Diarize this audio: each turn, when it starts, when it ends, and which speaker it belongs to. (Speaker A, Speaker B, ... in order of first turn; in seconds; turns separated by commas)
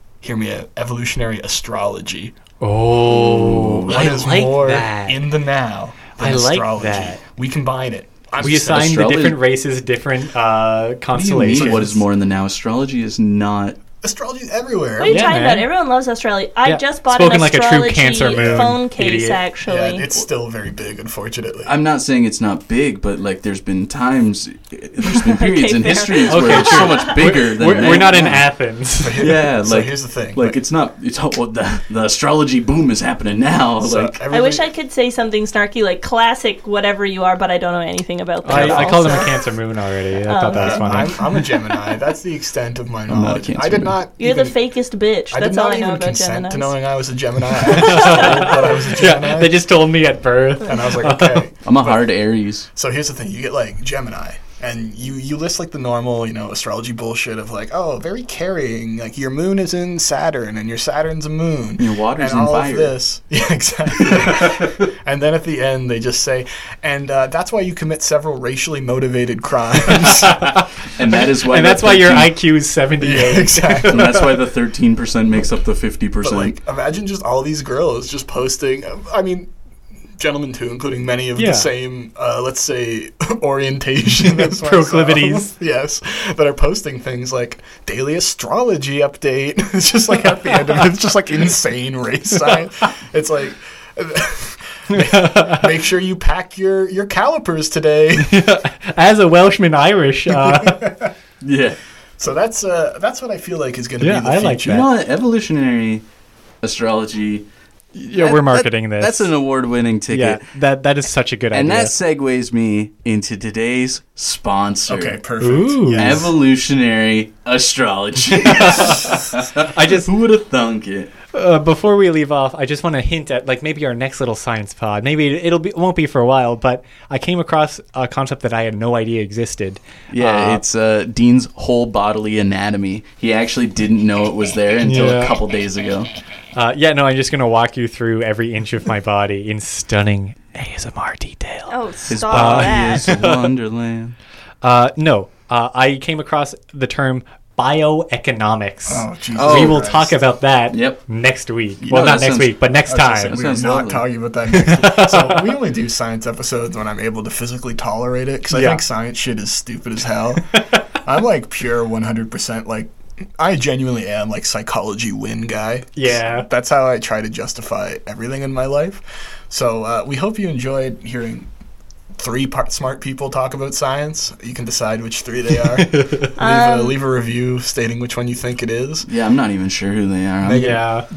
Speaker A: 0.2-2.4, Speaker B: 2.6-5.2, Speaker C: 3.1-4.3, Speaker A: 3.9-9.0, Speaker B: 6.2-7.2, Speaker C: 8.4-9.4, Speaker B: 8.4-12.0, Speaker C: 11.1-13.8, Speaker A: 11.5-11.9, Speaker A: 14.0-15.3, Speaker D: 15.0-20.1, Speaker B: 15.1-15.7, Speaker B: 16.6-19.4, Speaker A: 18.3-18.8, Speaker A: 19.6-21.8, Speaker C: 21.6-28.5, Speaker D: 25.0-27.2, Speaker B: 26.3-29.3, Speaker A: 29.0-30.6, Speaker C: 29.2-34.2, Speaker A: 33.8-34.7, Speaker D: 34.3-39.4, Speaker B: 38.5-41.5, Speaker A: 38.5-39.3, Speaker D: 40.3-41.1, Speaker A: 40.5-44.6, Speaker C: 43.1-44.0, Speaker D: 44.2-46.7, Speaker A: 45.3-49.6, Speaker D: 47.7-48.5, Speaker B: 47.8-51.5, Speaker A: 50.6-52.0, Speaker C: 51.6-52.7, Speaker A: 52.8-70.4, Speaker C: 61.8-63.0, Speaker C: 64.0-64.8, Speaker B: 70.0-74.3, Speaker C: 70.9-72.4, Speaker A: 73.0-74.2, Speaker C: 73.8-76.5, Speaker A: 76.2-79.5, Speaker A: 80.2-98.5, Speaker B: 81.4-81.7, Speaker B: 84.2-85.5, Speaker B: 94.9-95.7, Speaker B: 98.2-101.1, Speaker A: 100.4-101.0, Speaker C: 101.4-101.8, Speaker A: 102.2-104.9, Speaker B: 104.0-104.9, Speaker C: 104.7-106.0, Speaker C: 106.6-107.5, Speaker B: 108.0-109.3, Speaker C: 108.1-110.4, Speaker B: 110.1-111.9, Speaker C: 111.5-115.2, Speaker A: 114.9-116.3, Speaker B: 115.4-116.2, Speaker C: 115.9-121.1, Speaker B: 118.4-120.1, Speaker A: 118.5-119.2, Speaker B: 121.3-130.6, Speaker C: 130.1-136.1, Speaker B: 134.8-135.4, Speaker B: 136.6-141.7, Speaker D: 141.7-143.1, Speaker C: 142.1-144.2, Speaker B: 142.3-143.5, Speaker B: 144.6-153.4, Speaker A: 148.9-150.1, Speaker C: 149.3-149.9, Speaker C: 150.7-151.0, Speaker A: 151.8-171.5, Speaker C: 151.9-154.1, Speaker B: 154.5-155.6, Speaker B: 158.5-158.8, Speaker B: 166.0-166.5, Speaker A: 172.2-179.1, Speaker B: 175.9-176.3, Speaker D: 176.4-177.0, Speaker C: 179.1-180.7, Speaker A: 180.4-180.9, Speaker B: 180.6-181.1